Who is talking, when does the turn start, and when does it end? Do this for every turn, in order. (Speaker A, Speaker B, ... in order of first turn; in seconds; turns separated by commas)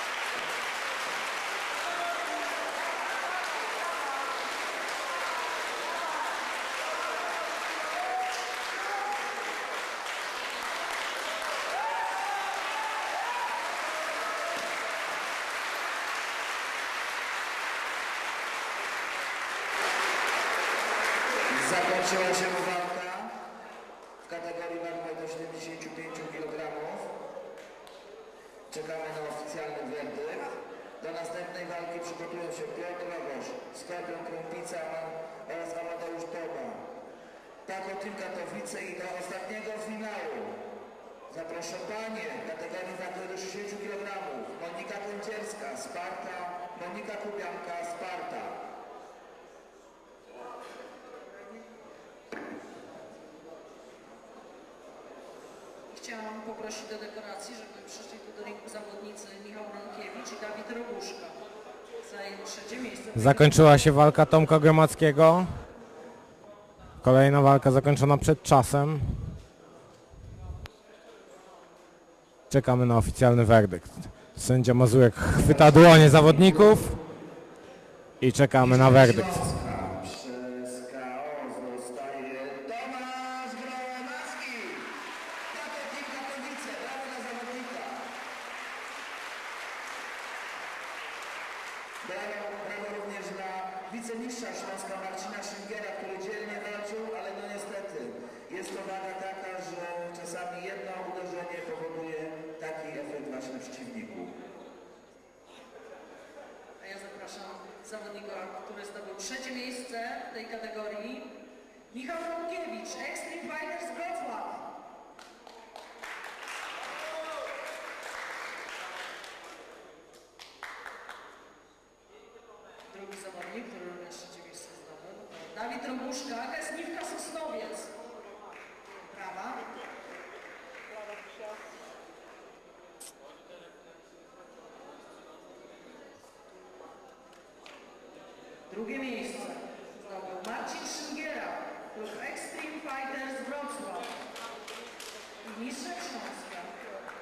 Speaker A: 21.5-23.4, Speaker A: 24.2-27.2, Speaker A: 28.7-36.9, Speaker A: 37.6-40.6, Speaker A: 41.3-48.6, Speaker B: 55.9-61.4, Speaker B: 62.0-63.9, Speaker C: 63.1-65.7, Speaker C: 67.0-69.4, Speaker C: 72.5-77.0, Speaker A: 75.3-76.8, Speaker C: 78.2-79.5, Speaker A: 78.6-85.0, Speaker A: 85.5-88.1, Speaker A: 92.0-104.3, Speaker B: 106.8-114.7, Speaker B: 122.9-127.9, Speaker B: 129.1-129.7, Speaker B: 138.7-144.2, Speaker B: 145.4-146.8